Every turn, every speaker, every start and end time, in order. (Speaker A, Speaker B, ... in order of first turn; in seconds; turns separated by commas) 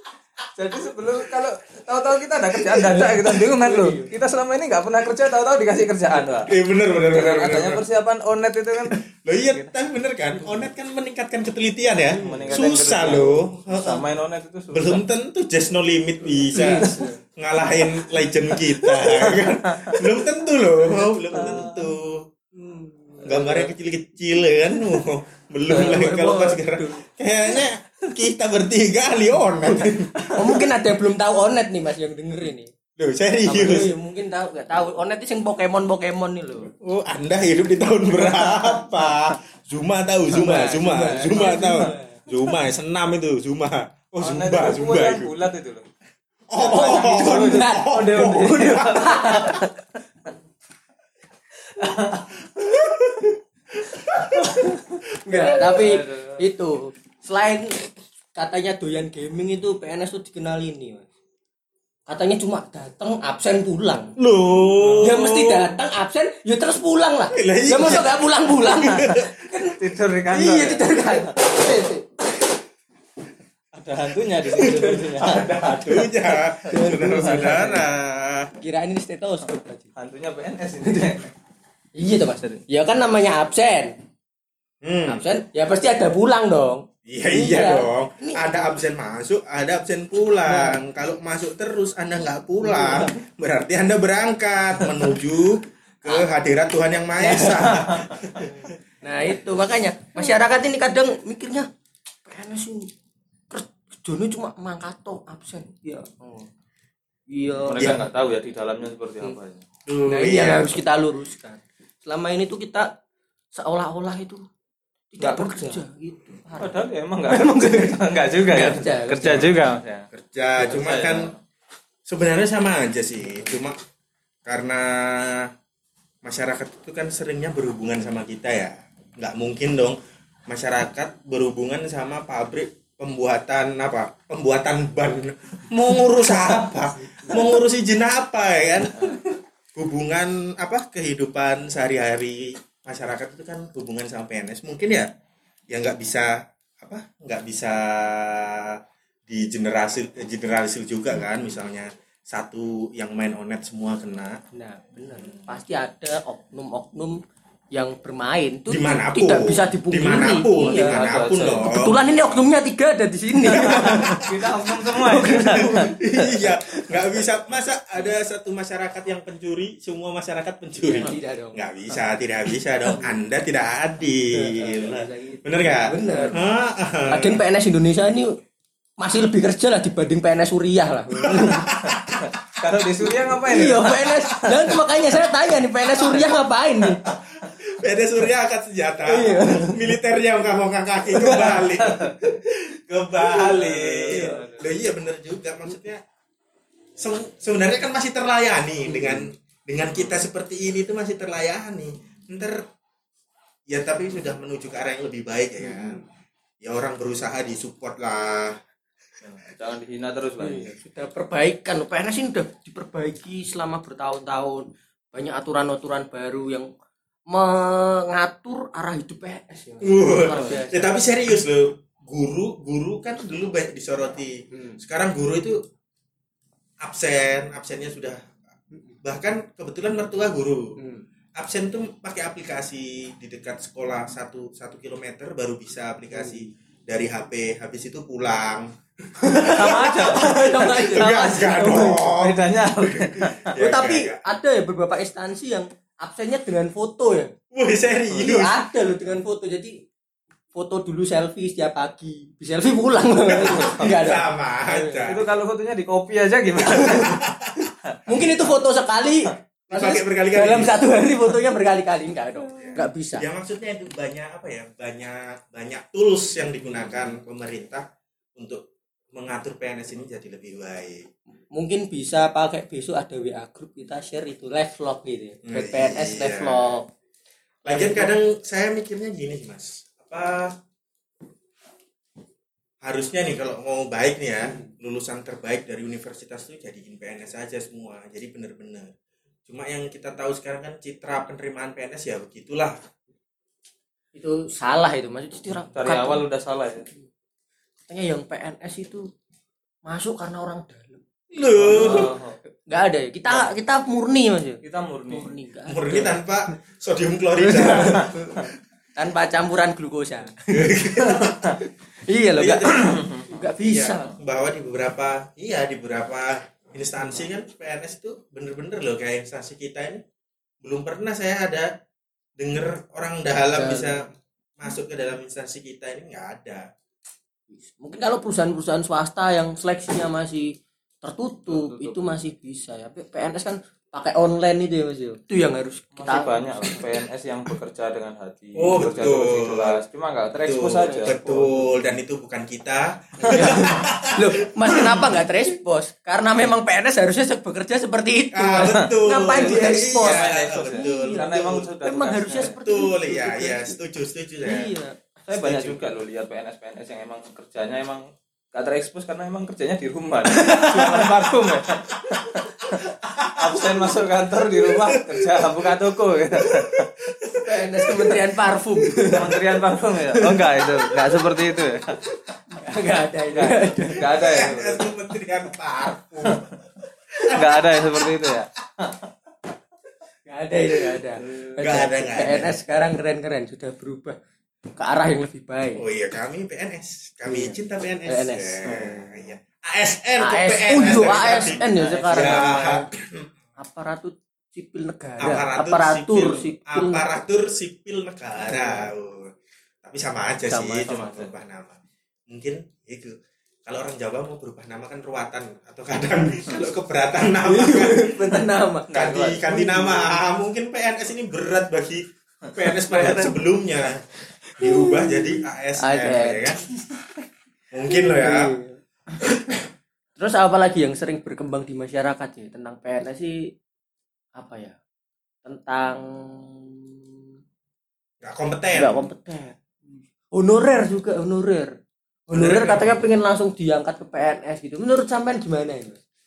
Speaker A: 0.6-9.0, Speaker B: 2.7-3.4, Speaker C: 3.6-4.1, Speaker B: 6.4-7.8, Speaker B: 8.9-14.1, Speaker C: 12.1-12.6, Speaker A: 12.2-15.0, Speaker B: 14.7-22.3, Speaker C: 16.5-17.2, Speaker A: 16.8-17.0, Speaker A: 18.5-20.1, Speaker A: 21.3-21.9, Speaker C: 22.6-23.6, Speaker B: 23.2-30.6, Speaker A: 23.2-23.7, Speaker C: 25.7-27.0, Speaker C: 29.6-32.7, Speaker B: 33.0-33.9, Speaker C: 33.4-36.7, Speaker B: 36.7-45.3, Speaker A: 38.2-38.7, Speaker C: 40.3-42.2, Speaker A: 41.2-41.9, Speaker A: 44.2-45.8, Speaker B: 46.5-49.6, Speaker A: 46.6-49.7, Speaker C: 46.6-49.7, Speaker C: 51.8-52.3, Speaker B: 52.5-54.7, Speaker C: 54.0-61.1, Speaker B: 55.3-55.8, Speaker A: 55.6-56.4, Speaker C: 62.1-64.1, Speaker B: 64.2-65.8, Speaker A: 64.8-65.1, Speaker C: 65.0-69.8, Speaker B: 67.3-69.3, Speaker A: 68.9-71.8, Speaker C: 70.3-72.0, Speaker A: 73.7-75.5, Speaker B: 74.5-78.5, Speaker C: 74.6-75.1, Speaker C: 75.6-76.0, Speaker C: 76.7-77.8, Speaker A: 76.9-77.7, Speaker C: 78.6-79.9, Speaker A: 80.0-81.3, Speaker C: 80.8-81.2, Speaker C: 82.0-83.9, Speaker B: 84.8-85.2, Speaker C: 85.1-88.6, Speaker B: 87.0-98.7, Speaker C: 90.5-90.8, Speaker C: 92.6-93.1, Speaker C: 97.2-97.6, Speaker A: 97.6-98.0, Speaker C: 99.0-101.7, Speaker C: 102.2-102.9, Speaker C: 103.5-106.5, Speaker C: 107.3-108.0, Speaker A: 107.6-109.6, Speaker B: 107.8-108.0, Speaker B: 109.8-110.8, Speaker C: 110.1-112.9, Speaker C: 113.5-114.5, Speaker C: 115.1-118.0, Speaker A: 115.2-115.8, Speaker A: 116.5-121.4, Speaker C: 118.5-119.5, Speaker B: 120.1-121.3, Speaker B: 122.0-123.8, Speaker B: 124.4-125.5, Speaker B: 126.2-145.1, Speaker A: 138.9-139.2, Speaker B: 145.7-154.4, Speaker C: 154.5-157.2, Speaker C: 157.7-161.0, Speaker B: 158.7-162.0, Speaker A: 160.7-161.7, Speaker C: 161.6-165.9, Speaker A: 163.5-166.4, Speaker B: 163.6-164.3, Speaker B: 165.5-177.4, Speaker C: 170.8-171.6, Speaker C: 174.3-176.3, Speaker A: 176.0-176.3, Speaker C: 177.1-178.4, Speaker C: 179.0-181.7, Speaker B: 181.2-182.3, Speaker A: 182.2-184.8, Speaker C: 183.5-187.1, Speaker A: 187.1-187.5, Speaker B: 187.4-196.0, Speaker C: 189.0-189.9, Speaker C: 191.2-191.6, Speaker A: 191.3-192.2, Speaker A: 193.3-194.7, Speaker C: 194.1-194.4, Speaker B: 197.0-202.6, Speaker C: 198.9-199.2, Speaker B: 203.7-206.0, Speaker C: 205.7-206.0, Speaker B: 206.6-208.6, Speaker A: 209.2-210.8, Speaker C: 210.4-216.7, Speaker C: 217.3-221.0, Speaker B: 219.8-225.6, Speaker A: 220.3-220.6, Speaker C: 224.5-224.8, Speaker B: 226.8-228.3, Speaker B: 229.0-230.8, Speaker C: 230.8-231.0, Speaker B: 231.4-244.2, Speaker C: 239.2-242.1, Speaker A: 239.4-243.5, Speaker C: 243.6-247.3, Speaker B: 247.5-248.6, Speaker C: 248.1-249.8, Speaker C: 250.5-255.1, Speaker B: 253.3-255.2, Speaker A: 253.5-254.0, Speaker A: 255.1-257.2, Speaker C: 256.6-257.2, Speaker B: 256.9-258.3, Speaker C: 258.1-263.2, Speaker B: 259.7-260.8, Speaker B: 262.4-267.8, Speaker B: 268.4-271.1, Speaker C: 271.5-276.9, Speaker B: 275.4-276.8, Speaker B: 277.6-280.5, Speaker C: 277.7-278.1, Speaker B: 282.8-288.9, Speaker B: 289.5-292.8, Speaker C: 294.1-296.2, Speaker A: 295.7-296.9, Speaker C: 297.9-299.1, Speaker C: 299.9-301.0, Speaker B: 301.3-302.1, Speaker A: 301.6-302.4, Speaker C: 301.6-302.1, Speaker C: 302.6-306.2, Speaker A: 304.6-305.3, Speaker B: 305.6-308.4, Speaker C: 307.5-308.2, Speaker A: 307.6-308.4, Speaker C: 308.9-310.8, Speaker B: 310.5-311.4, Speaker A: 311.1-311.6, Speaker C: 311.6-314.1, Speaker B: 312.4-312.9, Speaker A: 313.0-313.3, Speaker B: 313.6-320.0, Speaker B: 320.6-321.7, Speaker B: 322.4-326.7, Speaker C: 323.5-324.1, Speaker C: 327.5-336.9, Speaker A: 331.5-332.1, Speaker A: 335.9-341.2, Speaker B: 338.6-339.8, Speaker B: 340.4-345.2, Speaker C: 340.8-341.9, Speaker C: 343.2-353.8, Speaker A: 343.2-343.6, Speaker B: 348.3-351.7, Speaker A: 348.6-352.6, Speaker B: 352.6-354.7, Speaker C: 354.4-355.1, Speaker A: 355.3-366.9, Speaker B: 355.3-355.8, Speaker C: 360.3-361.6, Speaker B: 362.9-363.8, Speaker B: 364.7-365.5, Speaker B: 366.4-368.2, Speaker C: 367.4-369.5, Speaker A: 369.1-372.0, Speaker C: 370.1-371.0, Speaker C: 372.1-374.8, Speaker A: 373.3-374.7, Speaker B: 374.0-376.4, Speaker A: 376.2-376.5, Speaker B: 377.2-378.1, Speaker A: 377.3-379.1, Speaker C: 380.3-384.2, Speaker A: 381.2-381.6, Speaker B: 381.6-382.5, Speaker C: 384.8-385.8, Speaker B: 385.8-393.3, Speaker C: 387.2-388.6, Speaker A: 388.6-389.1, Speaker C: 390.2-392.9, Speaker A: 391.1-392.5, Speaker C: 393.6-397.1, Speaker B: 395.2-408.3, Speaker C: 398.4-398.9, Speaker C: 400.4-401.2, Speaker A: 400.9-401.3, Speaker C: 407.4-410.2, Speaker A: 408.3-409.5, Speaker B: 408.9-416.6, Speaker A: 412.8-413.3, Speaker C: 414.6-416.7, Speaker B: 417.7-418.5, Speaker C: 417.9-419.6, Speaker C: 420.1-423.5, Speaker C: 424.4-424.8, Speaker C: 425.4-427.1, Speaker B: 428.2-429.1, Speaker C: 428.7-431.7, Speaker B: 432.3-433.0, Speaker C: 432.3-436.0